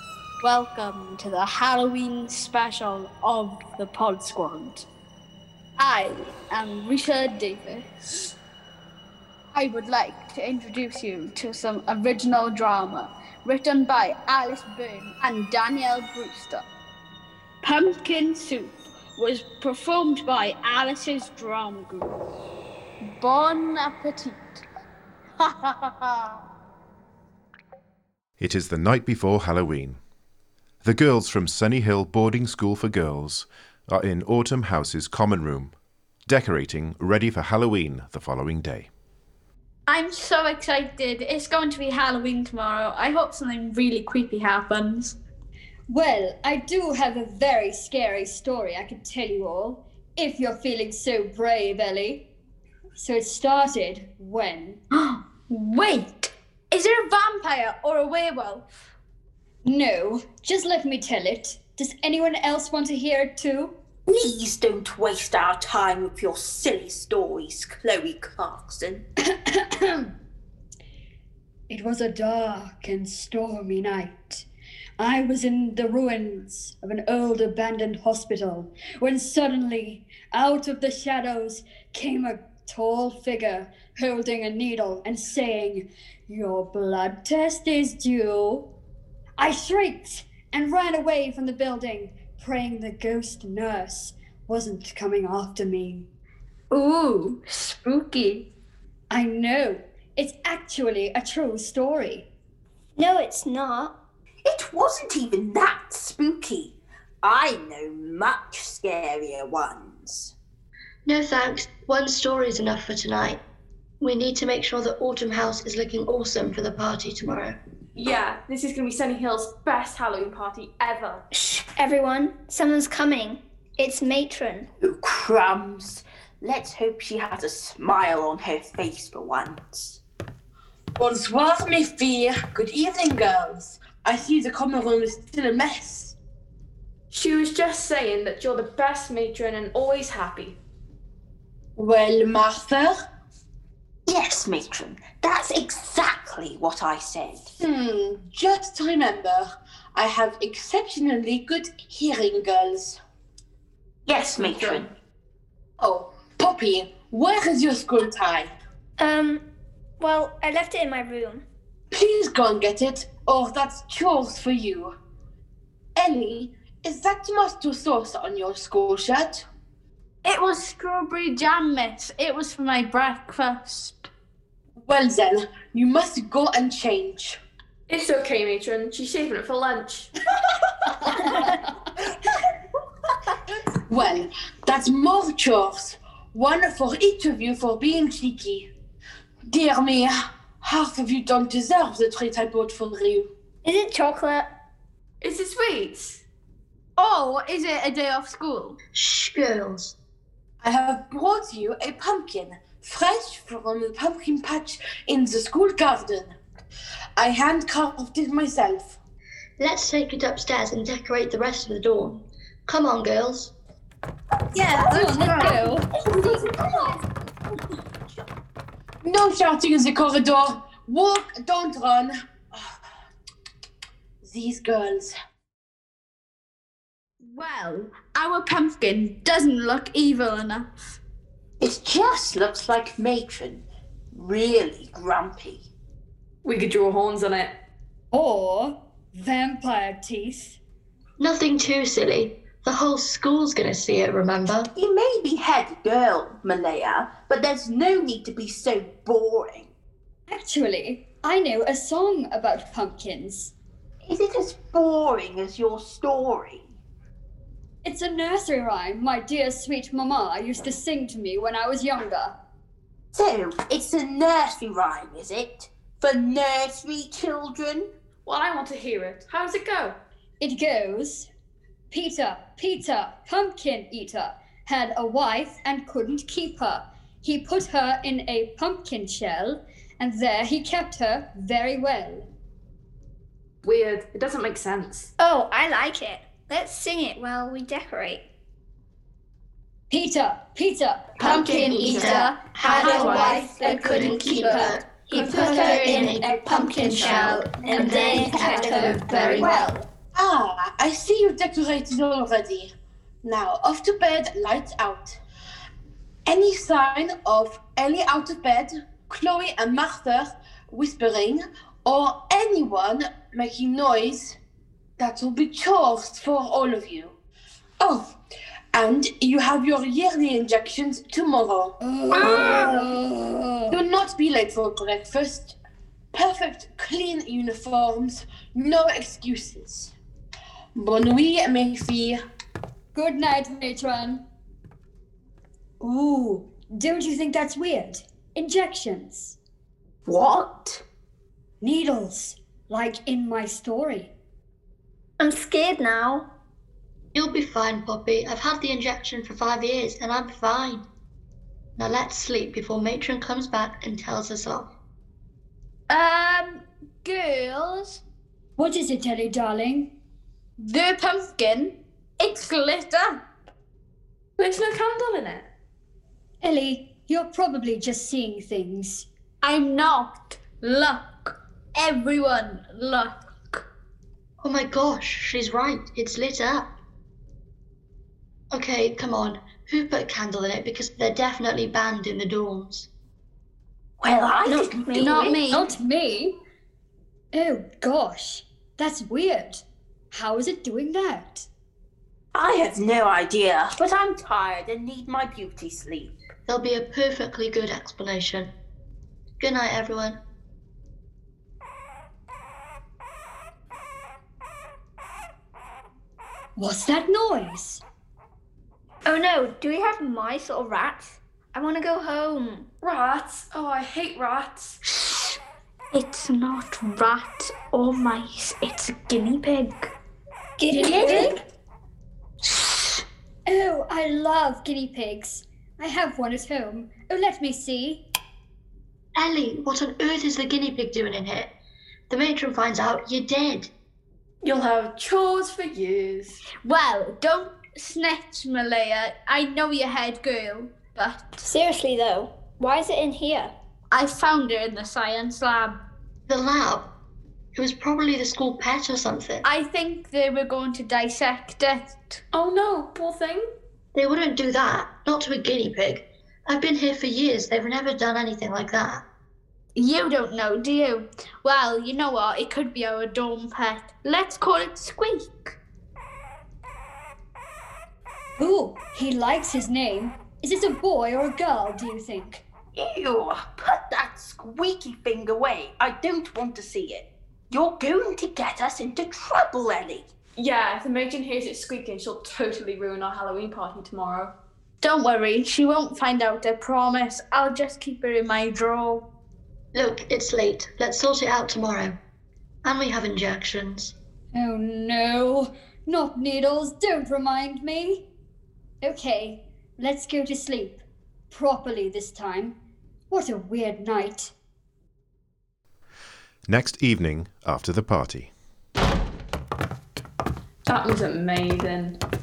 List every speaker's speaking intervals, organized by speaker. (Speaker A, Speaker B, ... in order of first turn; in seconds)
Speaker A: 0.4-4.8, 5.8-8.3, 9.5-16.6, 17.6-22.1, 23.0-24.6, 25.4-26.3, 39.9-45.1, 54.9-58.6, 96.7-98.5, 170.2-174.1, 197.0-198.8, 214.6-215.8, 227.2-230.7, 291.2-296.2, 297.1-299.8, 355.9-358.0, 360.6-363.2, 369.4-373.6, 385.0-385.7, 414.8-415.4, 415.9-419.9, 422.4-423.0, 436.6-441.4, 443.9-445.8, 449.4-452.2, 459.8-465.6, 484.8-489.1
Speaker B: 28.4-30.0, 30.8-35.7, 36.3-38.9, 506.5-508.3
Speaker C: 45.9-52.2, 53.0-54.8, 59.6-63.7, 69.5-70.1, 71.7-74.5, 75.0-88.7, 89.4-96.1, 99.1-102.3, 181.0-181.6, 214.9-217.0, 238.1-240.6, 250.3-253.5, 257.8-262.4, 270.4-271.3, 271.9-282.3, 289.9-291.8, 293.3-299.7, 321.8-323.8, 332.9-334.2, 335.8-339.4, 341.6-344.1, 358.6-359.9, 366.4-369.1, 385.3-386.3, 387.3-391.5, 406.6-407.8, 420.9-421.3, 423.5-428.0, 468.4-472.4, 494.3-498.0, 498.8-500.8, 501.3-502.6, 503.1-504.3
Speaker D: 64.1-69.0, 104.4-110.3, 124.8-130.0, 144.1-147.5, 154.1-154.9, 215.9-216.9, 231.6-235.7, 244.7-249.7, 254.1-256.7, 263.1-267.9, 340.1-340.8, 384.0-385.3, 392.3-396.1, 472.8-480.0
Speaker E: 103.0-103.9, 121.3-124.7, 159.0-159.4, 160.0-161.4, 193.6-194.5, 285.2-288.2, 291.7-294.5, 295.2-299.6, 345.2-346.2, 384.4-385.4, 409.1-412.6, 420.6-421.4, 441.4-443.5
Speaker F: 111.0-113.4, 114.0-117.6, 198.9-199.9, 209.6-213.5, 241.2-244.7, 291.2-299.7, 347.1-350.9, 351.8-354.7, 374.4-376.7, 378.5-382.9, 396.5-398.5, 399.4-400.2, 429.1-431.5, 432.1-433.7, 446.3-446.9, 447.5-449.5, 453.9-459.0, 489.7-492.0, 492.6-493.9
Speaker G: 117.9-121.2, 137.1-140.6, 154.3-154.9, 177.9-180.1, 195.2-196.2, 236.4-237.5, 268.2-270.0, 283.6-285.1, 291.2-292.3, 292.9-293.4, 364.4-365.5, 412.8-414.8, 420.8-421.3, 434.4-436.4, 452.3-453.4, 480.4-484.3, 510.7-512.0
Speaker H: 131.0-136.2, 141.8-142.9, 147.6-153.0, 155.8-158.5, 161.9-164.9, 165.9-169.4, 174.8-177.4, 183.9-188.7, 189.4-193.3, 200.6-206.4, 207.2-208.9, 219.0-222.8, 224.2-225.1, 300.1-302.7, 303.2-305.2, 306.2-314.4, 315.0-317.1, 317.8-318.1, 318.7-322.9, 323.7-325.6, 326.1-329.9, 330.7-332.2